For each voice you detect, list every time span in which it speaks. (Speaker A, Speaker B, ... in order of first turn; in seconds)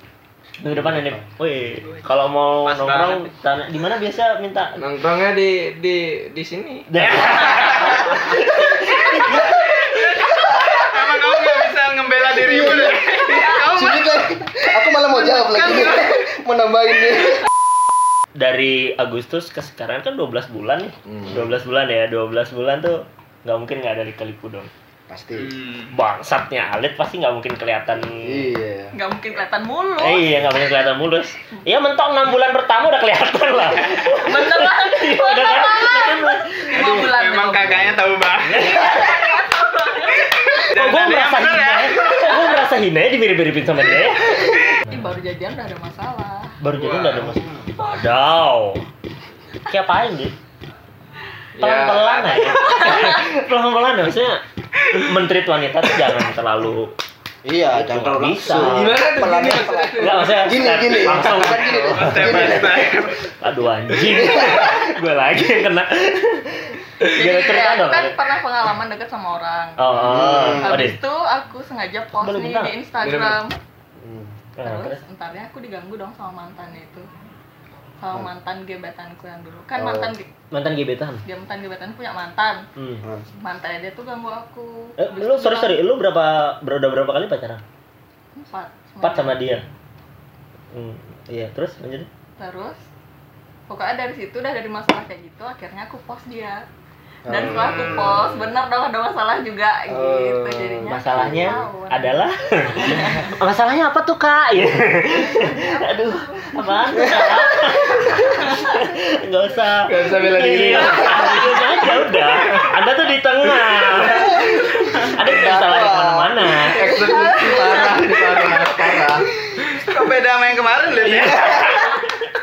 Speaker A: 0.6-4.8, 6.9-9.6, 18.4-24.7, 25.9-28.5, 30.0-37.0, 38.6-39.0, 40.7-45.0, 46.6-48.9, 49.7-50.3, 51.6-56.9, 57.7-59.1, 60.0-62.6, 63.4-68.2, 69.8-71.0, 72.2-72.7, 74.6-75.0, 80.5-81.2, 82.8-83.0, 85.0-87.6, 89.0-89.6, 90.7-92.1, 100.9-116.9
Speaker B: 2.6-3.3, 7.6-8.0, 9.5-14.1, 15.3-16.1, 25.4-25.9, 36.7-39.0, 40.6-42.6, 46.8-47.1, 52.2-52.8, 61.6-63.3, 119.8-122.0
Speaker C: 4.8-6.9, 51.6-52.2, 58.5-60.5, 73.0-73.4, 109.8-112.7, 114.0-114.3, 116.6-119.8
Speaker D: 12.4-17.5, 25.1-25.6, 28.2-28.9, 57.4-63.0, 64.2-64.7, 70.0-70.7, 74.0-74.3, 79.8-80.1, 97.3-97.9, 99.9-101.6, 115.2-117.9
Speaker E: 28.9-30.3, 33.9-38.0, 38.5-40.5, 44.9-46.6, 67.1-73.6, 74.6-77.1, 78.0-80.3, 81.2-82.7, 83.3-85.8, 88.3-89.5, 92.4-92.8, 93.7-96.7, 97.3-103.3, 105.2-108.8